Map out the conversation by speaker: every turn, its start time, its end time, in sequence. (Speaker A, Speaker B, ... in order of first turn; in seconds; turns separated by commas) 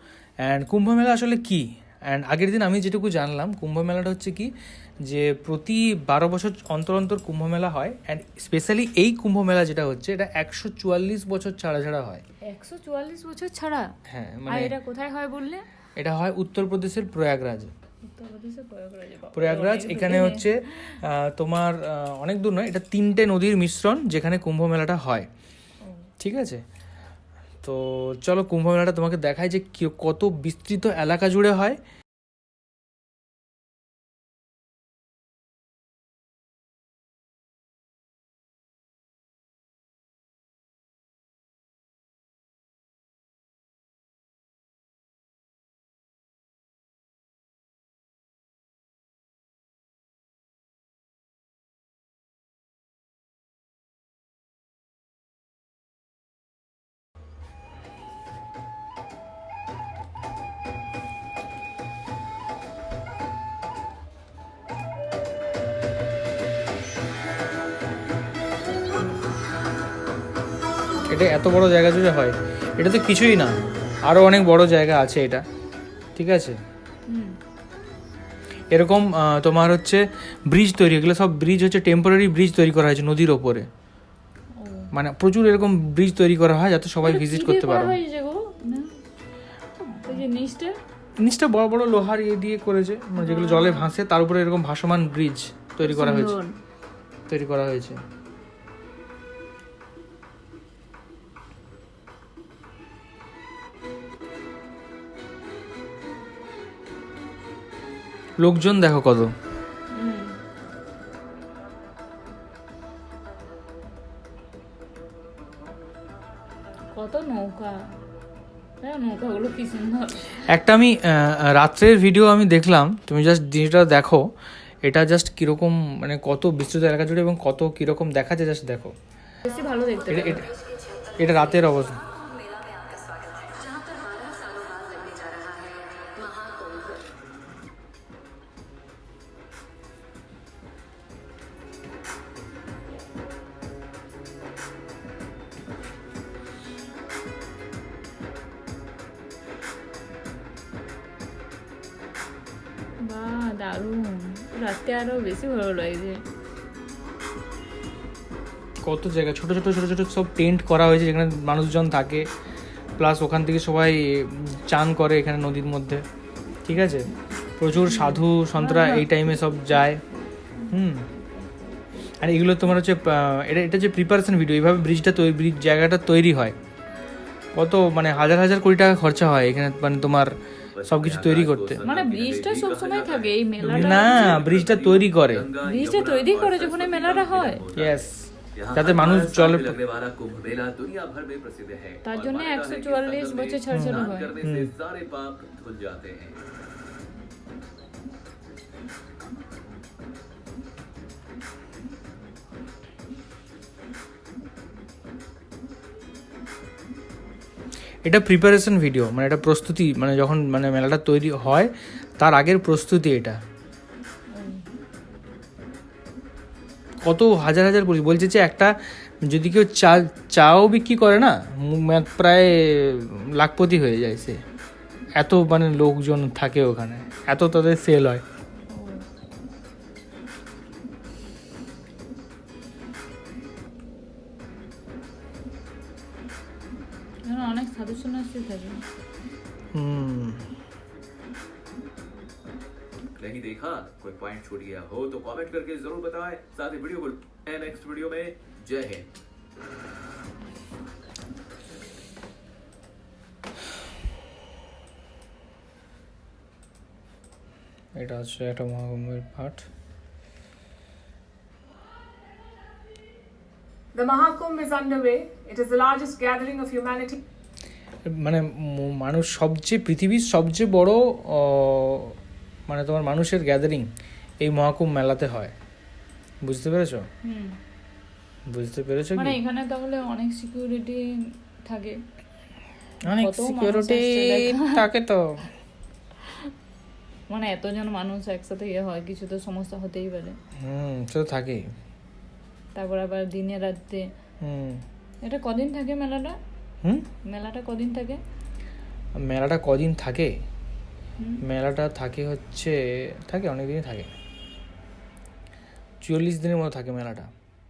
Speaker A: 0.4-4.5, Speaker A: 5.0-12.2, Speaker B: 12.5-13.9, Speaker A: 14.1-14.7, Speaker B: 14.5-15.7, Speaker A: 16.0-17.7, Speaker B: 18.0-21.0, Speaker A: 19.3-25.3, Speaker A: 26.2-26.6, Speaker A: 27.6-31.8, Speaker A: 71.1-75.4, Speaker A: 76.2-76.5, Speaker B: 77.1-77.4, Speaker A: 78.7-83.7, Speaker B: 84.5-84.9, Speaker A: 84.9-88.0, Speaker B: 87.0-89.0, Speaker B: 89.8-90.8, Speaker A: 91.2-96.4, Speaker B: 93.2-93.9, Speaker B: 95.8-96.6, Speaker A: 97.3-98.0, Speaker A: 108.4-109.3, Speaker B: 109.9-110.4, Speaker B: 117.0-117.8, Speaker B: 118.8-120.5, Speaker A: 120.5-124.3, Speaker A: 124.8-128.9, Speaker B: 129.4-130.5, Speaker A: 130.1-130.5, Speaker A: 131.2-132.1, Speaker B: 134.7-136.5, Speaker B: 153.0-156.2, Speaker A: 158.8-162.3, Speaker A: 163.0-166.0, Speaker A: 166.7-167.1, Speaker A: 167.6-170.0, Speaker B: 167.7-169.9, Speaker A: 170.7-171.1, Speaker A: 172.2-176.6, Speaker A: 177.6-181.8, Speaker C: 180.8-196.4, Speaker B: 181.8-184.4, Speaker A: 183.6-185.4, Speaker B: 185.6-187.6, Speaker A: 187.8-189.8, Speaker B: 192.0-194.4, Speaker A: 193.7-194.7, Speaker A: 208.1-213.4, Speaker B: 214.3-214.8, Speaker A: 217.1-224.4, Speaker A: 225.2-228.2, Speaker B: 228.7-229.1, Speaker B: 237.3-238.8, Speaker A: 239.7-240.4, Speaker C: 243.2-249.1, Speaker A: 258.0-259.6, Speaker D: 263.9-267.2, Speaker A: 268.1-272.1, Speaker A: 272.7-273.9, Speaker A: 274.4-275.5, Speaker A: 276.4-277.0, Speaker B: 277.2-277.6, Speaker A: 278.5-279.4, Speaker B: 279.1-281.0, Speaker B: 281.6-282.0, Speaker A: 283.0-285.4, Speaker B: 283.1-284.9, Speaker B: 286.2-286.5, Speaker B: 287.3-290.4, Speaker A: 290.6-291.6, Speaker B: 292.8-294.0, Speaker A: 294.4-294.8, Speaker B: 295.2-296.4, Speaker B: 297.3-298.2, Speaker A: 299.2-300.3, Speaker A: 301.4-304.1, Speaker A: 306.0-307.3